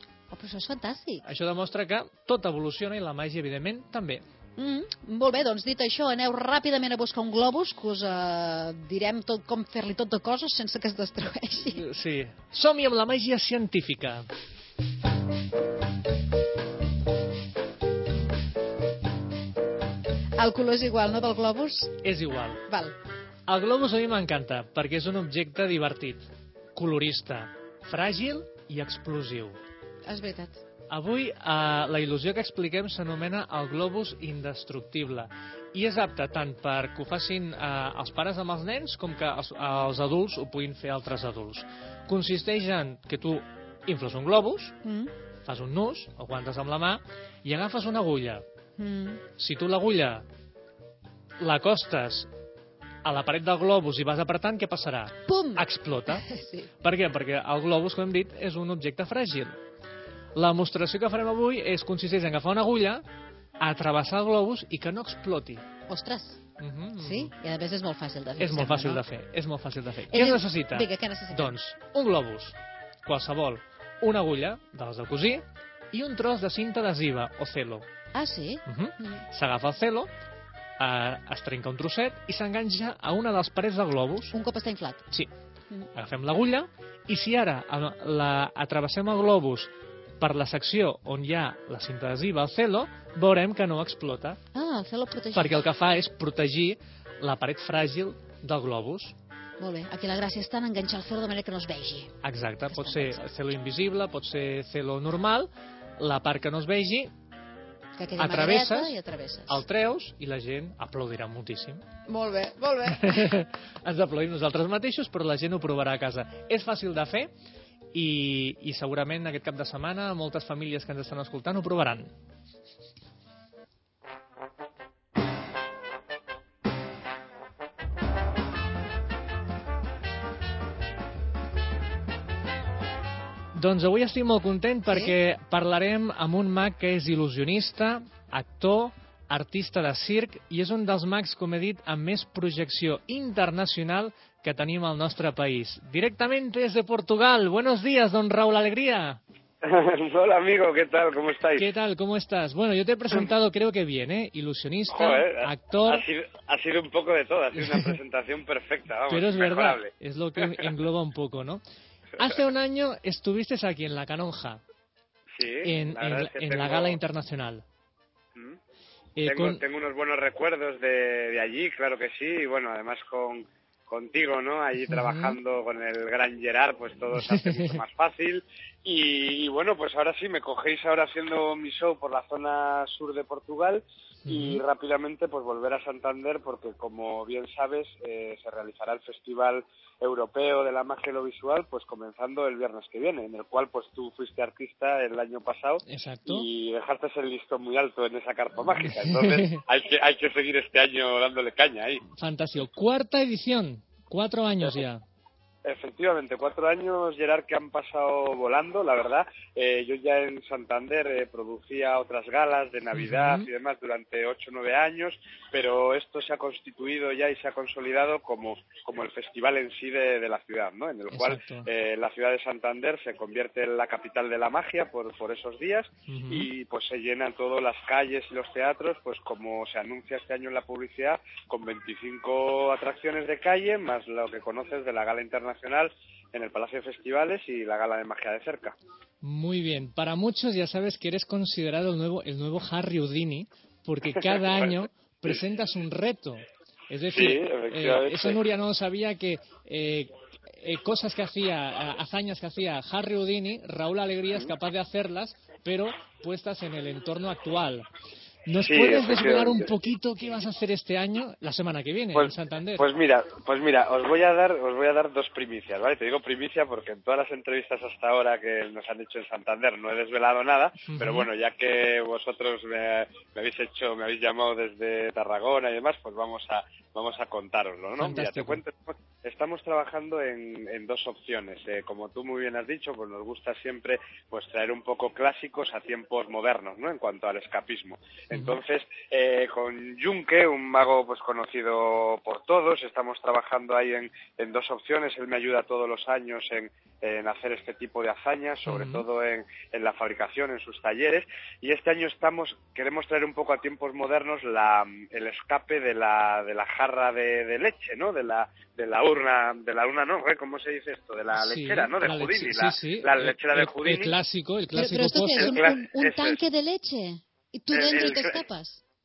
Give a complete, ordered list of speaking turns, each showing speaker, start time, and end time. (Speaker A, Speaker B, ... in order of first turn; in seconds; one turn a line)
Speaker A: 0.3-1.2
Speaker B: 1.2-4.2
Speaker A: 4.6-11.8
Speaker B: 11.7-14.3
Speaker A: 20.4-21.9
Speaker B: 22.0-22.6
Speaker A: 22.6-22.9
Speaker B: 23.5-29.6
Speaker A: 30.1-30.6
Speaker B: 30.9-44.8
Speaker A: 44.8-45.1
Speaker B: 45.4-48.4
Speaker A: 48.8-49.2
Speaker B: 49.4-50.2
Speaker B: 51.4-52.3
Speaker B: 53.0-56.2
Speaker A: 55.2-56.7
Speaker B: 56.8-59.6
Speaker B: 60.4-63.0
Speaker B: 63.6-65.6
Speaker A: 65.9-66.4
Speaker B: 66.6-67.3
Speaker A: 67.0-69.0
Speaker B: 68.4-77.8
Speaker A: 70.1-71.5
Speaker A: 78.1-79.2
Speaker B: 78.7-80.1
Speaker B: 80.8-84.3
Speaker A: 84.3-85.0
Speaker B: 85.9-94.4
Speaker A: 94.5-95.6
Speaker B: 95.3-99.1
Speaker A: 99.6-102.1
Speaker B: 102.2-107.1
Speaker A: 102.7-103.2
Speaker A: 108.0-109.6
Speaker B: 108.2-108.9
Speaker B: 109.5-111.8
Speaker A: 112.1-113.3
Speaker B: 112.8-117.3
Speaker B: 117.9-122.1
Speaker B: 133.5-149.2
Speaker C: 149.6-151.7
Speaker B: 151.6-156.0
Speaker C: 154.9-159.9
Speaker B: 157.6-157.9
Speaker B: 159.1-161.6
Speaker C: 162.2-162.4
Speaker B: 162.2-164.6
Speaker C: 165.3-167.0
Speaker B: 165.6-167.6
Speaker B: 169.2-169.6
Speaker C: 169.3-202.0
Speaker B: 174.8-175.3
Speaker B: 177.1-177.8
Speaker B: 184.2-184.6
Speaker B: 195.8-196.5
Speaker B: 198.8-199.5
Speaker B: 202.1-205.0
Speaker C: 205.6-238.8
Speaker B: 212.9-213.5
Speaker B: 221.1-221.7
Speaker B: 226.1-226.5
Speaker B: 239.2-257.9
Speaker C: 244.1-244.7
Speaker C: 247.1-248.4
Speaker B: 258.4-262.9
Speaker C: 258.6-259.7
Speaker C: 262.1-314.1
Speaker B: 270.8-271.3
Speaker B: 278.0-278.6
Speaker B: 298.6-299.0
Speaker B: 311.4-315.6
Speaker A: 314.7-318.8
Speaker C: 315.3-316.4
Speaker C: 317.7-318.4